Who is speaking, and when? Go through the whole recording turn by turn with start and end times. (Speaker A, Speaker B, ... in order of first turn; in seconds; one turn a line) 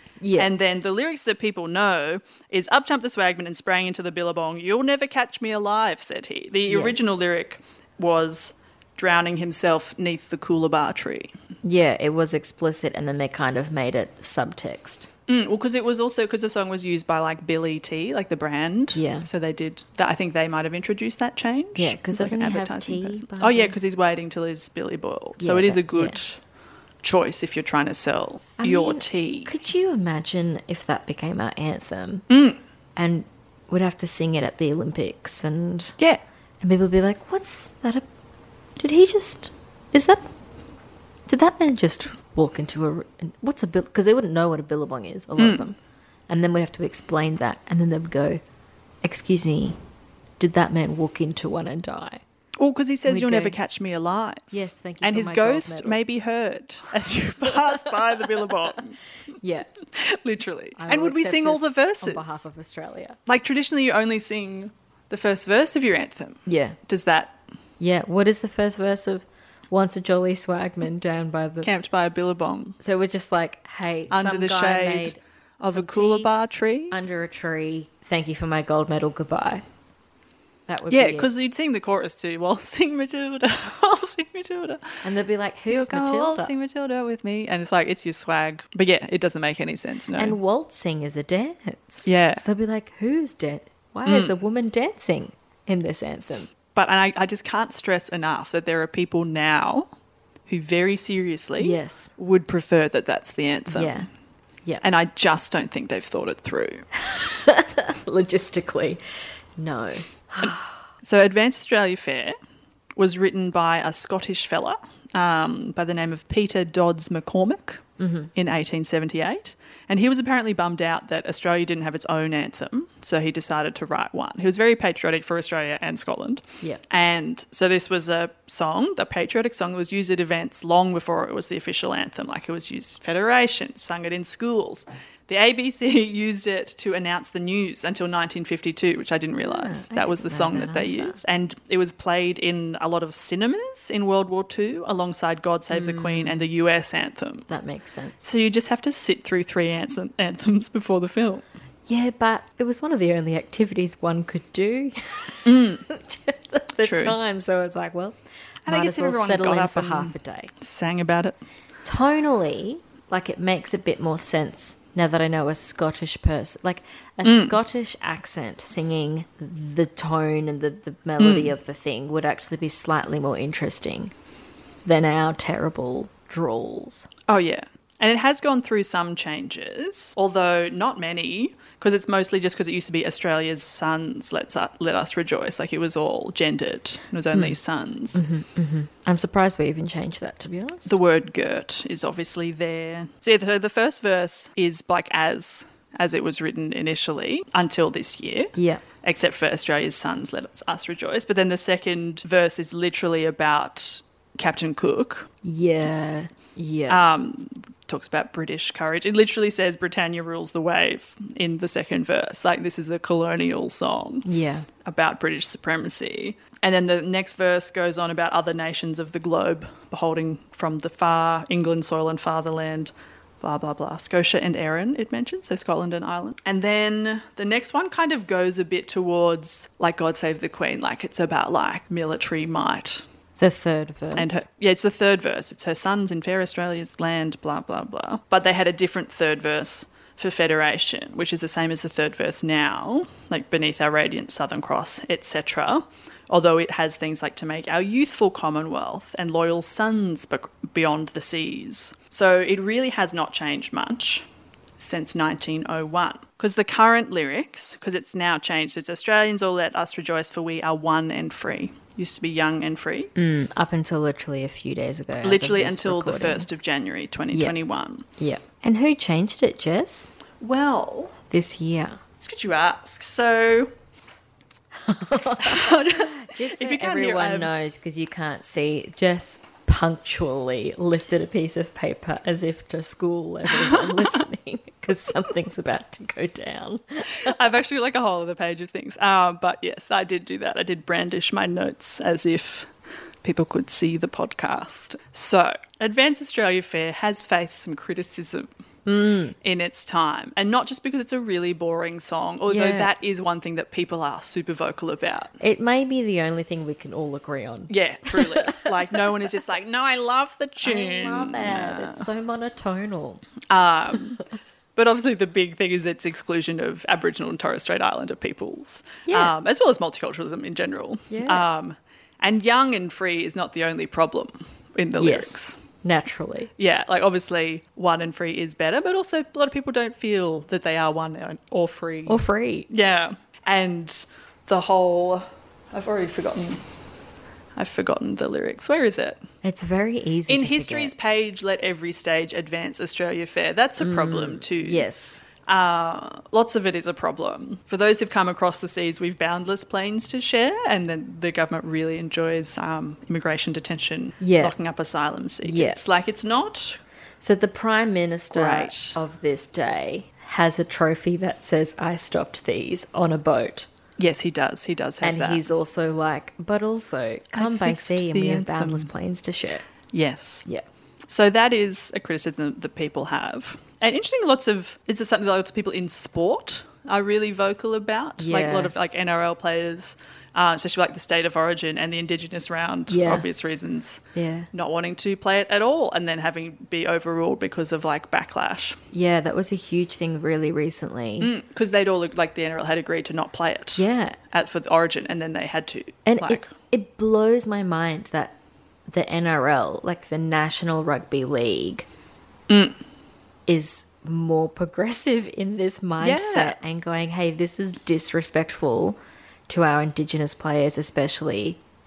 Speaker A: 0.2-0.5
Speaker B: 0.3-11.3
Speaker A: 6.7-7.2
Speaker A: 11.6-15.1
Speaker B: 15.3-26.4
Speaker A: 18.9-19.3
Speaker A: 21.8-23.8
Speaker A: 25.4-26.2
Speaker B: 27.0-29.5
Speaker A: 28.6-32.2
Speaker B: 32.3-32.6
Speaker A: 33.0-36.0
Speaker A: 36.6-38.0
Speaker A: 38.8-40.3
Speaker A: 41.3-45.8
Speaker B: 45.4-45.7
Speaker A: 46.3-48.4
Speaker A: 49.0-49.8
Speaker A: 50.4-52.2
Speaker B: 52.6-59.0
Speaker A: 53.1-53.6
Speaker A: 54.5-56.0
Speaker A: 57.4-58.5
Speaker A: 59.4-59.7
Speaker B: 59.9-62.4
Speaker A: 60.8-63.2
Speaker B: 63.2-67.4
Speaker A: 66.5-66.8
Speaker A: 67.8-71.7
Speaker B: 71.6-72.8
Speaker A: 72.8-76.3
Speaker B: 74.1-77.0
Speaker A: 76.9-79.6
Speaker A: 80.7-81.3
Speaker B: 80.9-85.0
Speaker A: 85.0-86.5
Speaker B: 85.7-90.4
Speaker A: 90.2-96.5
Speaker B: 92.0-92.4
Speaker B: 94.0-94.3
Speaker B: 96.7-99.9
Speaker B: 100.5-104.0
Speaker A: 101.6-102.1
Speaker A: 103.7-104.1
Speaker B: 104.8-106.8
Speaker A: 106.9-109.0
Speaker A: 109.5-110.8
Speaker B: 110.4-112.3
Speaker B: 113.0-147.5
Speaker A: 118.0-118.3
Speaker A: 139.4-141.2
Speaker A: 145.7-146.4
Speaker A: 147.5-148.2
Speaker B: 148.2-151.4
Speaker A: 151.8-160.5
Speaker B: 155.4-155.8
Speaker B: 156.8-157.2
Speaker B: 158.7-161.4
Speaker A: 161.8-174.1
Speaker B: 167.2-167.6
Speaker B: 171.2-171.5
Speaker A: 174.8-177.1
Speaker B: 177.3-188.2
Speaker A: 187.3-187.6
Speaker A: 188.1-190.9
Speaker B: 190.8-205.3
Speaker A: 198.6-198.8
Speaker A: 205.4-207.0
Speaker B: 206.9-214.3
Speaker A: 214.2-214.7
Speaker B: 214.8-233.0
Speaker A: 233.4-234.4
Speaker B: 234.1-254.3
Speaker B: 254.8-263.1
Speaker A: 263.1-266.5
Speaker B: 265.2-268.1
Speaker A: 268.2-270.1
Speaker B: 270.4-271.2
Speaker A: 271.3-272.0
Speaker B: 272.2-273.7
Speaker A: 274.7-287.4
Speaker B: 275.4-277.5
Speaker B: 283.6-284.2
Speaker B: 287.1-292.7
Speaker B: 293.2-298.5
Speaker A: 298.9-299.4
Speaker B: 299.4-305.4
Speaker A: 302.5-302.9
Speaker A: 305.4-308.7
Speaker B: 307.7-312.1
Speaker A: 310.6-313.2
Speaker B: 313.5-314.2
Speaker B: 314.8-325.6
Speaker A: 319.1-319.3
Speaker A: 321.1-321.4
Speaker A: 325.0-326.5
Speaker B: 326.6-336.6
Speaker A: 332.1-332.7
Speaker B: 337.6-339.2
Speaker A: 339.4-340.9
Speaker B: 340.3-344.9
Speaker A: 343.8-345.2
Speaker B: 345.4-356.8
Speaker A: 354.2-354.6
Speaker A: 355.4-355.8
Speaker A: 357.2-363.7
Speaker B: 358.3-359.0
Speaker B: 364.0-365.4
Speaker A: 365.0-369.7
Speaker B: 367.3-368.9
Speaker B: 369.9-370.5
Speaker B: 371.1-388.8
Speaker A: 378.2-378.7
Speaker A: 382.9-383.3
Speaker A: 384.1-384.5
Speaker A: 388.9-391.3
Speaker B: 391.2-396.5
Speaker A: 393.8-394.2
Speaker A: 396.1-398.4
Speaker A: 398.9-401.9
Speaker B: 402.5-402.8
Speaker A: 403.5-411.6
Speaker B: 406.0-406.5